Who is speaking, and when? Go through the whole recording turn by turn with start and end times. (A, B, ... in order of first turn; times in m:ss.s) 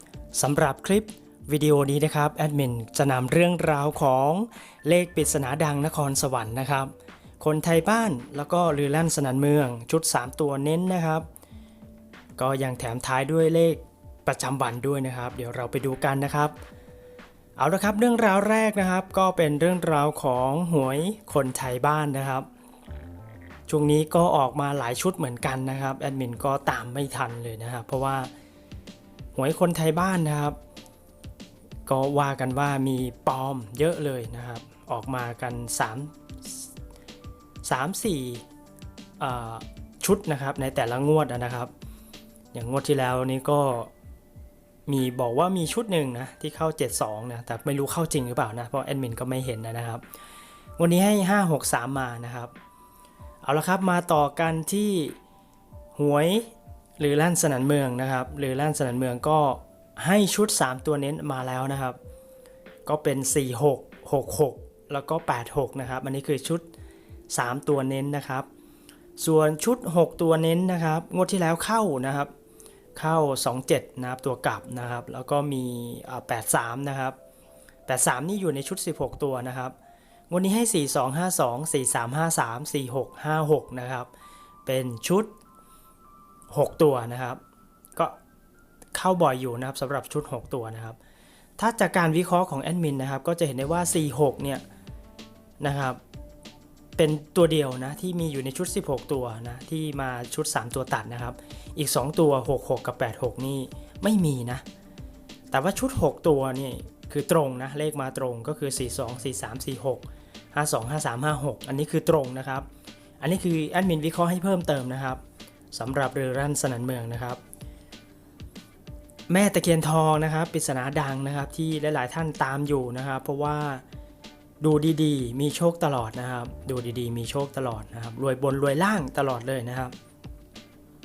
0:00.3-0:11.2 A
0:12.4-0:16.6 A
0:17.6-0:22.5 A
0:23.7-0:28.3 A
0:29.3-0:30.6 A
0:31.8-0:36.7 A
0:37.6-0:38.4 A
0:39.2-0:41.7 A
0:42.5-0:43.9 A
0:44.9-0:50.0 A
0:50.8-0:52.5 A
0:53.4-0:55.2 A
0:55.9-1:02.0 A
1:02.8-1:06.7 A
1:07.3-1:08.5 A
1:09.2-1:12.3 A
1:12.9-1:17.2 A
1:17.9-1:19.8 A
1:20.3-1:24.1 A
1:24.6-1:25.3 A
1:26.5-1:27.4 A
1:28.9-1:31.0 A
1:31.6-1:34.6 A
1:35.6-1:36.0 A
1:37.0-1:44.6 A
1:45.5-1:52.6 A
1:53.2-1:55.2 A
1:55.7-1:57.4 A
1:59.3-2:03.8 A
2:04.6-2:09.9 A